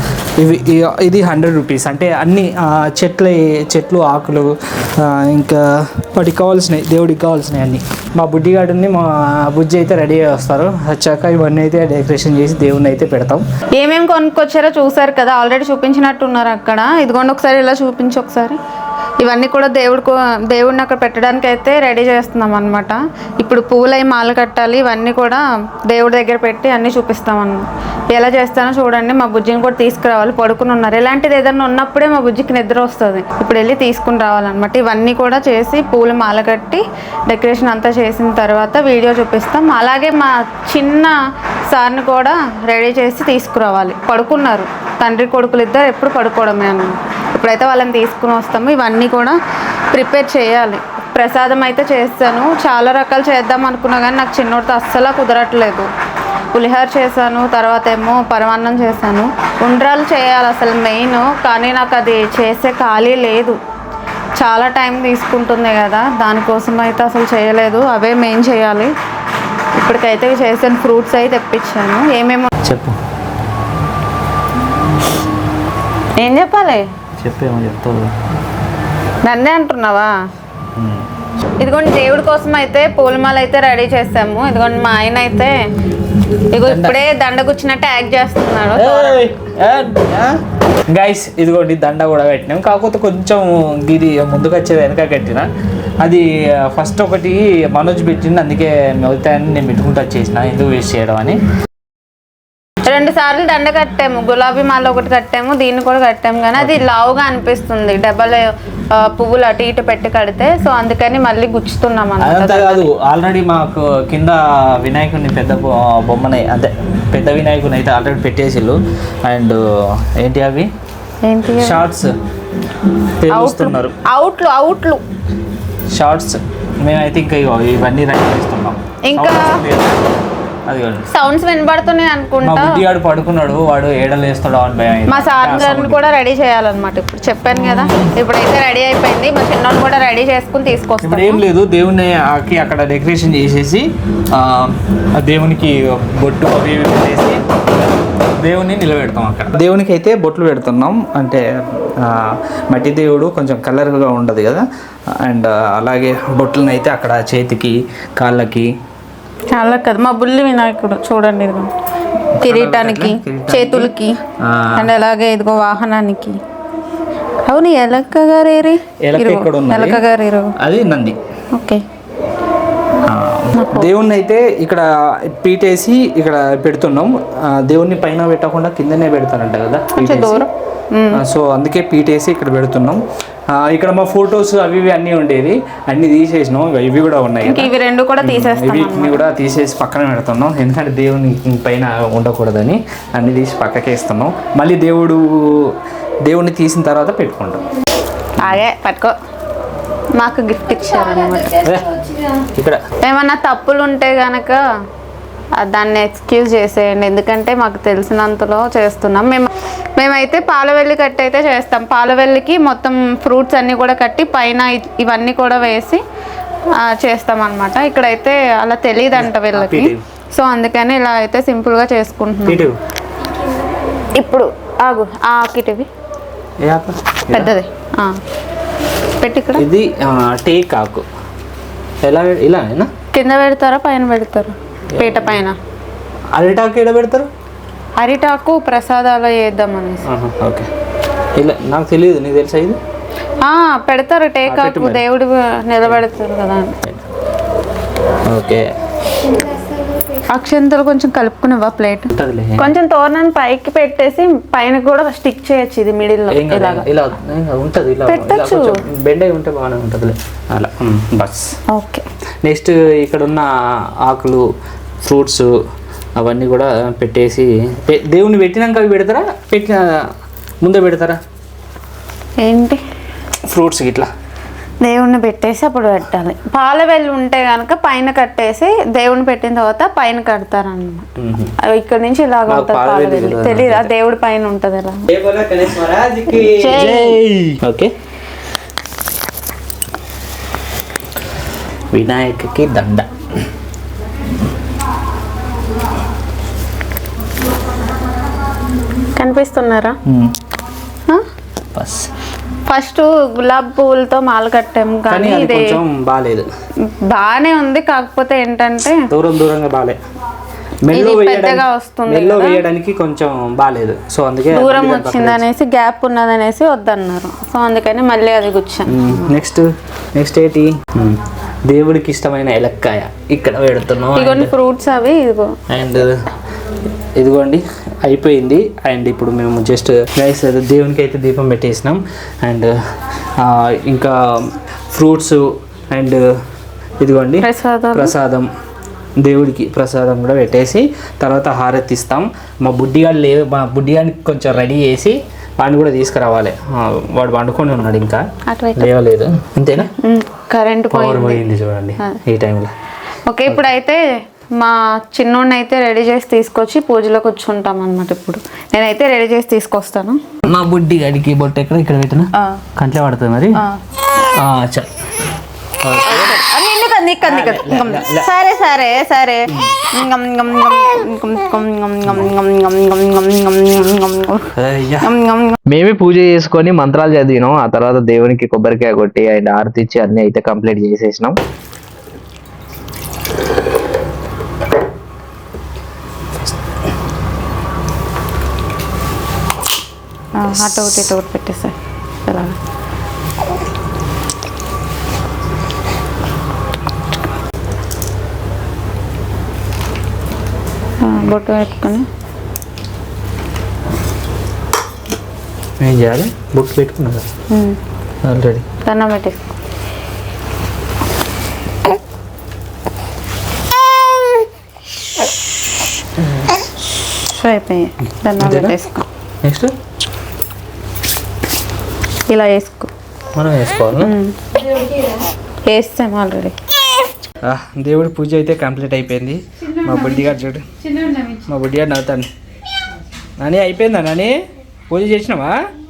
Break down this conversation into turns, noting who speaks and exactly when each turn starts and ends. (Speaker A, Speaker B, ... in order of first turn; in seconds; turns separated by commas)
Speaker A: 0.4-13.4, Speaker B: 13.8-18.6, Speaker B: 19.2-41.1, Speaker B: 41.7-49.4, Speaker B: 49.9-55.9, Speaker B: 56.5-63.6, Speaker B: 64.4-68.9, Speaker B: 69.8-72.5, Speaker A: 72.6-73.0, Speaker B: 76.2-76.8, Speaker A: 77.2-78.3, Speaker B: 79.2-80.1, Speaker A: 80.8-81.1, Speaker B: 81.6-85.5, Speaker B: 86.5-89.3, Speaker A: 86.7-87.0, Speaker A: 88.8-90.4, Speaker A: 90.9-95.5, Speaker A: 96.0-101.4, Speaker B: 102.8-112.9, Speaker A: 106.6-106.8, Speaker A: 112.2-120.7, Speaker B: 121.2-121.8, Speaker A: 121.6-122.2, Speaker A: 123.2-124.0, Speaker B: 123.3-125.0, Speaker A: 125.9-130.1, Speaker B: 129.1-129.6, Speaker A: 130.7-131.1, Speaker B: 131.1-132.8, Speaker A: 132.4-136.0, Speaker B: 135.1-141.4, Speaker A: 137.8-138.1, Speaker A: 141.0-147.4, Speaker A: 148.2-158.7, Speaker B: 159.5-161.7, Speaker A: 162.3-164.9, Speaker B: 162.4-164.2, Speaker B: 164.8-166.4, Speaker B: 167.4-170.6, Speaker A: 169.0-170.0, Speaker A: 170.6-171.2, Speaker B: 171.5-171.8, Speaker A: 173.0-180.4, Speaker B: 173.5-173.9, Speaker B: 180.0-181.2, Speaker A: 181.1-197.6, Speaker B: 187.4-189.2, Speaker A: 198.4-198.6, Speaker B: 198.4-199.2, Speaker B: 200.2-202.4, Speaker A: 201.6-201.9, Speaker A: 202.5-202.8, Speaker B: 203.0-204.6, Speaker B: 205.6-216.0, Speaker B: 216.8-222.7, Speaker A: 219.1-220.0, Speaker A: 222.5-222.8, Speaker B: 224.1-225.9, Speaker A: 226.6-227.5, Speaker B: 227.3-228.2, Speaker B: 229.2-229.7, Speaker A: 229.6-231.1, Speaker A: 232.0-232.9, Speaker B: 233.1-235.6, Speaker A: 234.9-235.5, Speaker A: 236.3-237.3, Speaker B: 238.0-240.1, Speaker A: 240.1-240.7, Speaker A: 241.4-242.8, Speaker B: 243.4-246.8, Speaker A: 244.5-245.0, Speaker A: 248.2-248.7, Speaker B: 250.2-256.9, Speaker A: 252.1-252.7, Speaker A: 256.3-261.6, Speaker B: 258.1-258.8, Speaker B: 261.7-262.1, Speaker A: 262.4-264.5, Speaker A: 265.0-265.5, Speaker A: 266.2-270.1, Speaker A: 270.6-271.2, Speaker B: 272.4-272.8, Speaker A: 273.5-274.1, Speaker B: 274.8-281.1, Speaker A: 281.2-281.5, Speaker B: 281.6-285.1, Speaker A: 282.5-283.9, Speaker A: 285.1-287.9, Speaker B: 286.3-287.2, Speaker A: 291.9-293.1, Speaker B: 299.2-300.0, Speaker A: 300.1-300.3, Speaker A: 301.7-302.1, Speaker B: 302.7-305.8, Speaker A: 305.1-306.5, Speaker B: 306.9-309.0, Speaker A: 309.1-310.0, Speaker A: 310.8-315.4, Speaker B: 310.9-312.6, Speaker B: 314.5-319.3, Speaker A: 318.9-324.5, Speaker B: 324.1-325.6, Speaker A: 325.7-326.2, Speaker A: 327.2-336.2, Speaker A: 337.0-338.5, Speaker B: 337.4-338.1, Speaker A: 339.2-349.9, Speaker B: 348.5-348.9, Speaker B: 350.0-351.4, Speaker A: 350.9-352.7, Speaker B: 353.3-354.0, Speaker B: 354.6-360.2, Speaker A: 360.4-363.6, Speaker B: 362.4-362.6, Speaker B: 363.6-363.8, Speaker A: 364.3-365.1, Speaker A: 365.8-366.4, Speaker B: 366.1-375.6, Speaker A: 367.2-368.3, Speaker A: 369.5-369.9, Speaker A: 374.5-375.1, Speaker C: 375.7-381.4, Speaker B: 390.4-391.8, Speaker B: 392.3-392.6, Speaker B: 401.0-402.1, Speaker A: 405.8-407.3, Speaker B: 407.5-407.8, Speaker A: 408.2-408.7, Speaker B: 408.9-409.5, Speaker A: 416.2-416.6, Speaker B: 417.3-419.1, Speaker A: 418.4-418.8, Speaker A: 419.4-419.7, Speaker B: 422.3-422.9, Speaker A: 423.3-424.1, Speaker B: 424.0-426.6, Speaker A: 427.4-430.7, Speaker B: 429.6-431.5, Speaker A: 431.5-432.3, Speaker A: 433.4-434.4, Speaker A: 434.9-435.6